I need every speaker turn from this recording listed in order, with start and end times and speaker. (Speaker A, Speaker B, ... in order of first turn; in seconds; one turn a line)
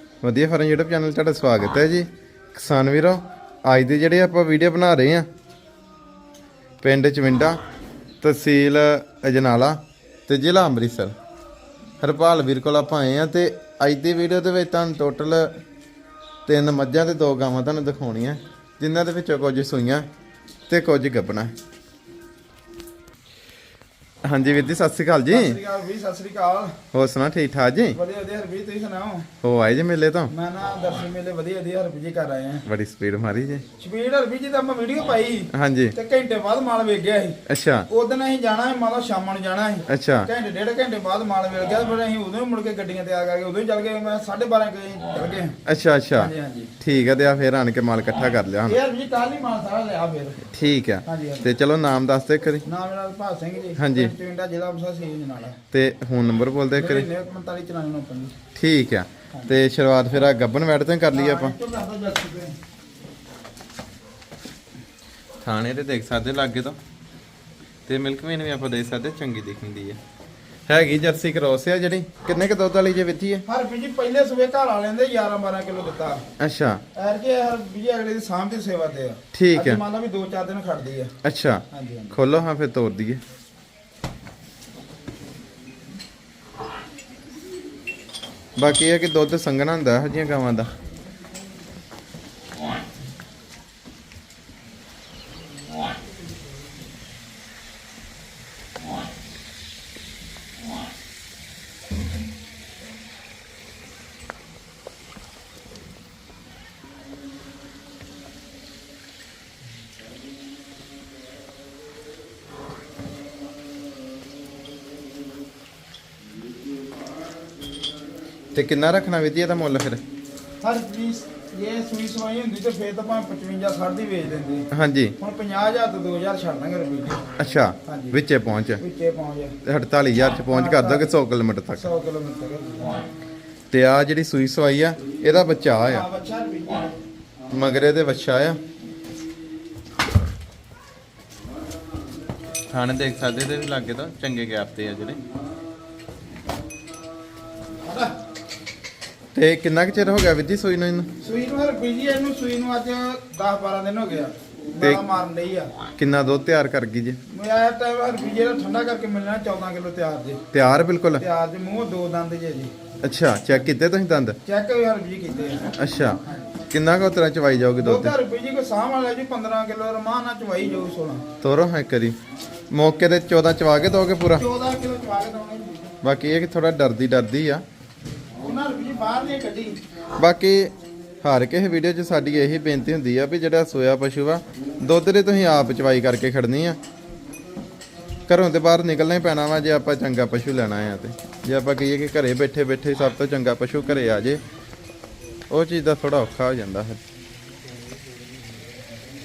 Speaker A: 0.2-5.3
Speaker A: 6.8-7.6
Speaker A: 8.2-11.1
Speaker A: 12.0-15.6
Speaker A: 16.5-20.1
Speaker A: 20.7-21.5
Speaker A: 24.2-25.6
Speaker B: 25.3-26.8
Speaker A: 26.9-28.0
Speaker B: 27.9-29.3
Speaker A: 29.4-30.3
Speaker B: 30.3-32.7
Speaker A: 32.7-33.6
Speaker B: 33.8-45.6
Speaker A: 35.5-36.0
Speaker A: 37.5-37.9
Speaker A: 39.9-40.3
Speaker A: 45.7-48.8
Speaker B: 46.2-46.7
Speaker B: 48.7-50.4
Speaker A: 50.5-52.6
Speaker B: 51.0-51.5
Speaker B: 52.6-55.6
Speaker A: 53.8-54.1
Speaker A: 55.7-57.1
Speaker B: 56.8-58.4
Speaker A: 58.5-61.5
Speaker B: 61.1-62.6
Speaker A: 65.4-66.8
Speaker A: 67.9-70.0
Speaker A: 70.7-73.4
Speaker B: 73.5-76.2
Speaker A: 76.4-76.8
Speaker B: 76.9-81.1
Speaker A: 79.3-79.8
Speaker A: 81.2-83.2
Speaker B: 81.7-82.2
Speaker A: 88.6-90.7
Speaker A: 118.5-120.0
Speaker B: 120.6-124.7
Speaker A: 124.7-125.2
Speaker B: 125.2-127.3
Speaker A: 127.4-128.8
Speaker B: 127.8-128.2
Speaker B: 128.8-129.6
Speaker A: 129.6-131.9
Speaker B: 130.5-131.1
Speaker B: 131.7-133.0
Speaker A: 133.7-136.1
Speaker B: 135.9-136.9
Speaker A: 137.5-138.6
Speaker A: 142.7-145.2
Speaker B: 147.9-148.1
Speaker A: 149.3-151.1
Speaker B: 151.2-155.7
Speaker A: 156.0-157.2
Speaker B: 157.3-160.4
Speaker A: 160.5-161.2
Speaker B: 161.2-162.7
Speaker A: 163.0-164.4
Speaker B: 164.4-166.5
Speaker A: 165.8-168.1
Speaker B: 167.8-171.3
Speaker A: 171.4-172.2
Speaker A: 172.7-174.4
Speaker B: 174.4-175.9
Speaker A: 176.0-177.6
Speaker B: 178.4-179.8
Speaker A: 180.2-186.8
Speaker A: 188.3-194.4
Speaker A: 195.5-197.0